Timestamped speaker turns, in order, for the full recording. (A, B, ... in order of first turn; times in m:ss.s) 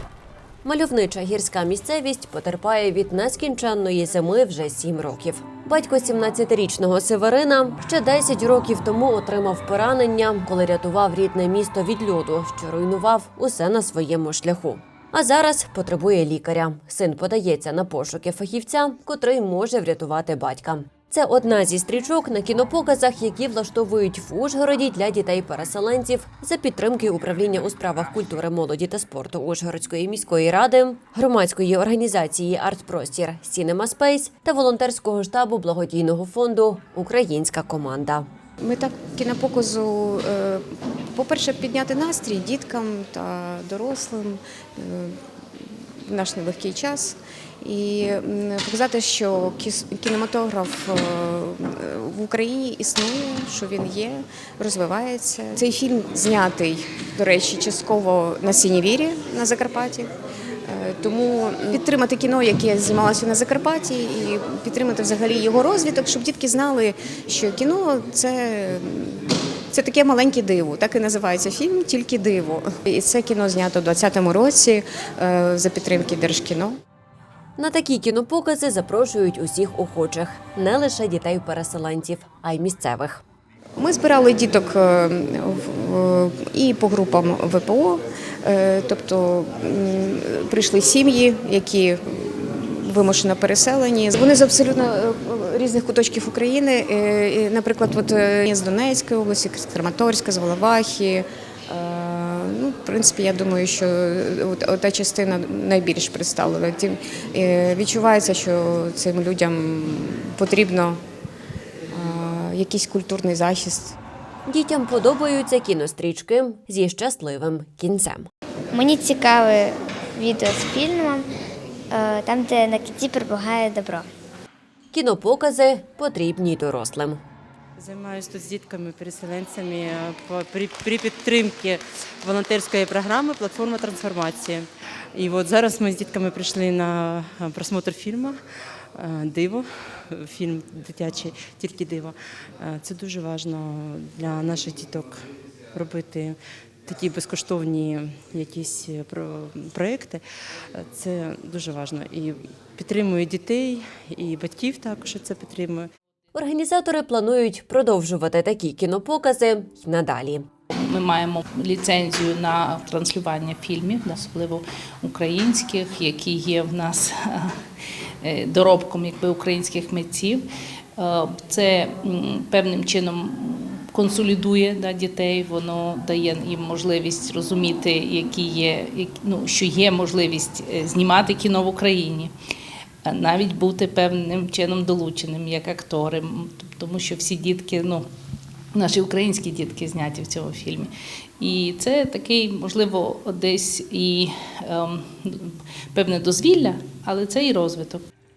0:00.6-0:38.3 A
0:38.6-1:00.1 B
1:00.7-1:16.8 B
1:17.6-1:23.2 A
1:23.8-1:51.0 B
1:51.9-1:54.0 B
1:54.5-1:58.3 A
1:58.7-2:01.3 C
2:01.9-2:04.1 C
2:04.9-2:07.2 A
2:07.8-2:18.4 D
2:19.0-2:25.2 D
2:25.7-2:30.2 D
2:30.8-2:35.9 D
2:36.3-2:40.5 A
2:40.8-2:47.6 E
2:48.2-2:50.5 E
2:51.0-3:02.3 E
3:03.0-3:08.1 E
3:08.7-3:18.0 E